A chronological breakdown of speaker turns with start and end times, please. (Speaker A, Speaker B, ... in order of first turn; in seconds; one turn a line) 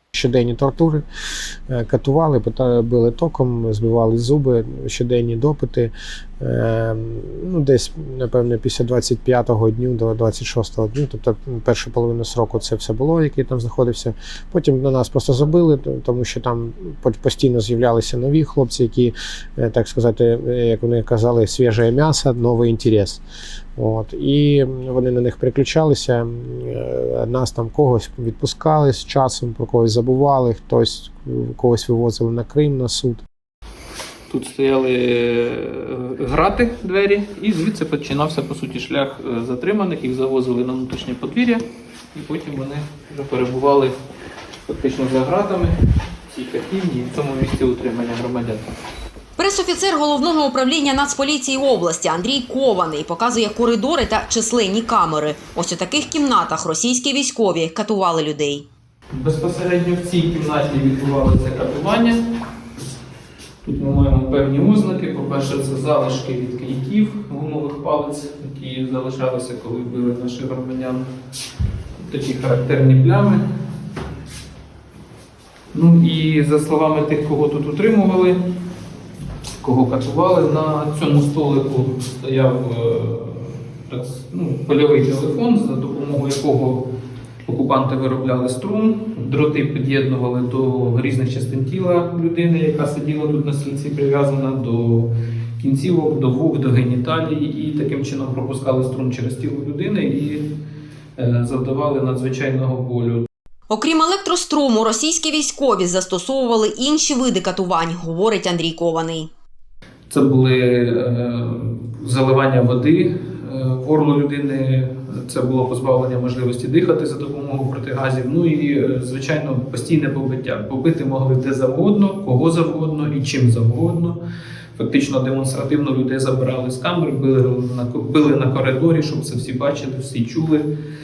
Speaker A: 0.1-1.0
Speaker A: 1.7-23.2
Speaker A: 23.8-33.2
Speaker B: 34.3-44.0
Speaker B: 44.7-45.7
Speaker B: 46.3-48.7
Speaker C: 49.4-58.6
Speaker B: 59.1-62.2
Speaker B: 63.6-71.0
Speaker B: 72.0-73.4
Speaker B: 75.7-78.4
Speaker B: 79.6-86.9
Speaker B: 87.4-100.5
Speaker B: 101.2-103.3
Speaker C: 103.7-109.3
Speaker B: 110.1-124.2
Speaker B: 124.8-130.7